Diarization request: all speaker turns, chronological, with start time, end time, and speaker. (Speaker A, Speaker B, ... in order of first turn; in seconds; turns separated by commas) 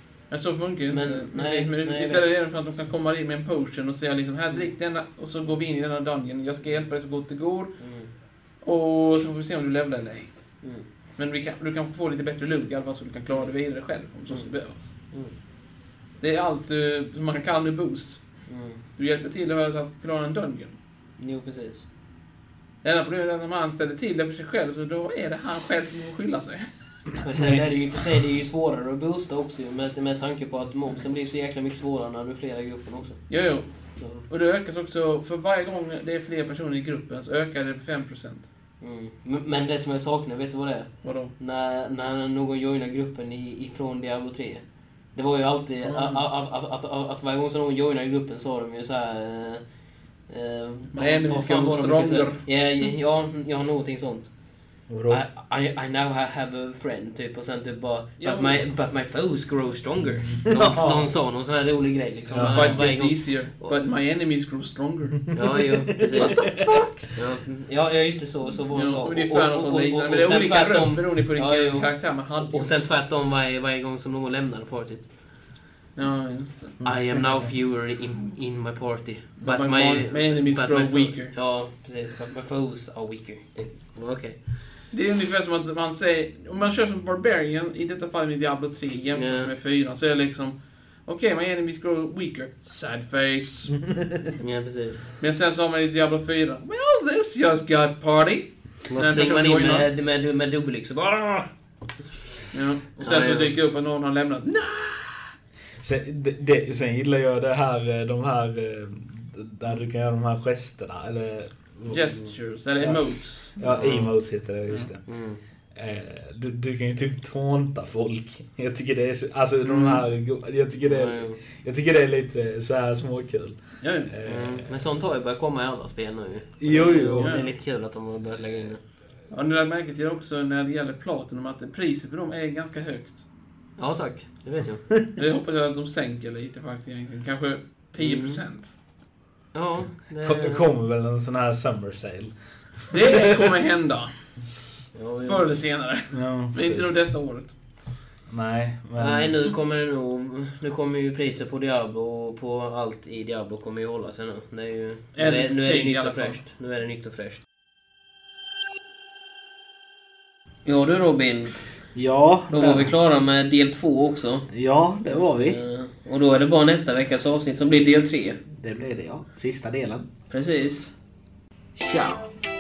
Speaker A: 0.3-7.7, Speaker B: 0.9-2.3, Speaker B: 7.8-8.1, Speaker A: 8.6-10.3, Speaker A: 11.2-14.9, Speaker B: 15.1-15.3, Speaker A: 16.2-18.2, Speaker B: 18.5-18.8, Speaker A: 19.0-20.8, Speaker B: 21.2-21.9, Speaker A: 22.8-26.7, Speaker B: 27.2-33.2, Speaker A: 33.3-38.5, Speaker B: 34.0-34.2, Speaker B: 38.8-44.6, Speaker A: 41.0-41.3, Speaker B: 45.1-49.6, Speaker A: 45.8-46.2, Speaker B: 50.3-54.3, Speaker A: 50.9-52.4, Speaker C: 54.9-55.2, Speaker B: 55.1-63.8, Speaker A: 58.2-58.7, Speaker C: 60.5-61.1, Speaker C: 62.3-62.9, Speaker A: 62.3-67.0, Speaker B: 65.3-66.5, Speaker C: 65.4-66.9, Speaker B: 67.2-75.1, Speaker A: 68.7-72.8, Speaker A: 76.0-76.8, Speaker C: 76.8-77.5, Speaker B: 76.8-84.4, Speaker A: 79.4-81.3, Speaker A: 84.9-93.9, Speaker B: 89.2-89.5, Speaker C: 93.9-94.2, Speaker B: 94.4-95.1, Speaker A: 95.2-99.9, Speaker B: 98.9-101.5, Speaker A: 102.5-105.3, Speaker B: 103.0-103.6, Speaker C: 105.8-112.2, Speaker A: 111.9-113.6, Speaker C: 112.8-115.0, Speaker B: 113.6-114.1, Speaker B: 115.1-115.4, Speaker C: 115.8-124.7, Speaker A: 119.6-120.1, Speaker B: 120.8-121.4, Speaker A: 123.8-124.1, Speaker B: 124.2-128.8, Speaker C: 126.6-127.3, Speaker A: 127.1-127.5, Speaker A: 129.3-133.2, Speaker B: 133.8-134.8, Speaker A: 135.2-138.7, Speaker B: 138.0-138.4, Speaker B: 139.5-140.7, Speaker C: 140.2-142.3, Speaker C: 142.9-143.5, Speaker A: 142.9-144.1, Speaker B: 144.9-145.6, Speaker A: 145.2-147.5, Speaker C: 146.1-146.9, Speaker C: 148.3-149.4, Speaker B: 149.0-157.4, Speaker A: 155.2-156.4, Speaker B: 160.7-161.6, Speaker C: 161.9-162.9, Speaker B: 162.5-164.5, Speaker C: 164.5-165.6, Speaker B: 165.0-168.4, Speaker C: 168.6-170.1, Speaker B: 170.3-170.9, Speaker C: 171.8-172.3